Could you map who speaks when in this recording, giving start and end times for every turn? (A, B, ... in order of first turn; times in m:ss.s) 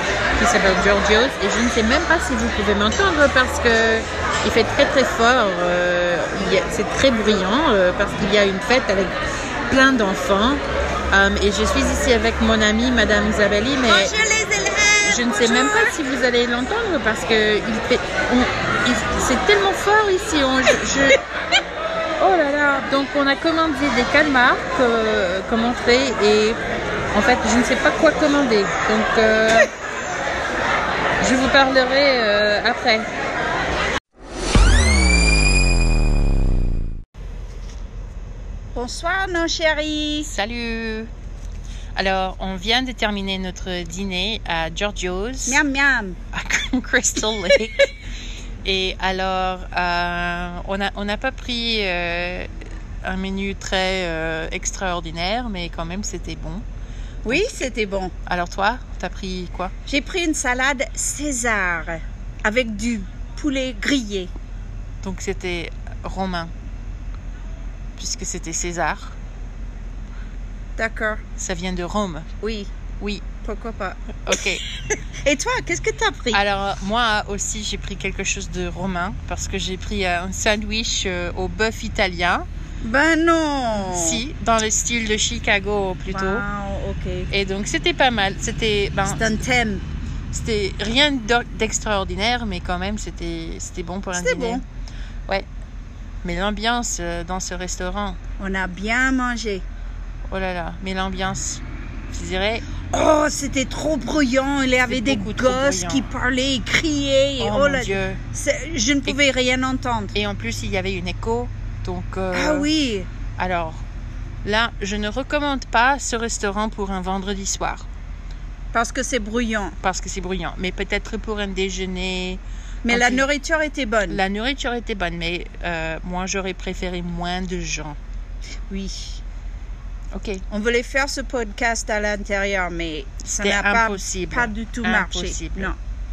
0:00.3-0:09.1 A
0:09.7-0:14.1 A
0:13.8-0:15.9 B
0:15.0-0:21.2 A
0:22.2-0:26.6 A
0:27.1-0:29.7 A
0:31.2-0:33.1 A
0:38.7-0:40.3 B
0:40.2-0:41.1 A
0:41.9-0:45.6 A
0:45.4-0:46.2 B
0:46.3-0:47.9 A
0:48.6-0:52.5 A
0:53.0-0:56.6 A
0:57.2-0:58.1 B
0:58.2-0:59.7 A
0:59.9-1:04.3 B
1:05.0-1:06.5 A
1:08.0-1:09.2 A
1:10.8-1:11.2 B
1:11.4-1:12.3 A
1:12.4-1:12.7 B
1:13.0-1:13.2 A
1:13.4-1:14.4 B
1:14.2-1:14.6 A
1:15.2-1:16.4 B
1:16.3-1:22.5 A
1:22.8-1:24.2 B
1:23.7-1:26.4 A
1:26.1-1:27.3 B
1:27.3-1:29.4 A
1:29.0-1:29.8 B
1:30.3-1:34.6 A
1:34.1-1:34.6 B
1:36.2-1:38.2 A
1:38.4-1:39.6 B
1:40.3-1:42.6 A
1:42.9-1:50.2 B
1:44.8-1:46.1 A
1:47.4-1:48.2 A
1:50.1-1:52.7 A
1:52.3-1:53.1 B
1:53.4-1:53.8 A
1:54.4-1:57.9 A
1:58.7-1:59.8 B
1:59.8-2:03.3 A
2:02.8-2:04.2 B
2:04.1-2:08.0 A
2:08.7-2:09.2 B
2:10.1-2:10.4 A
2:10.5-2:15.8 B
2:13.2-2:15.7 A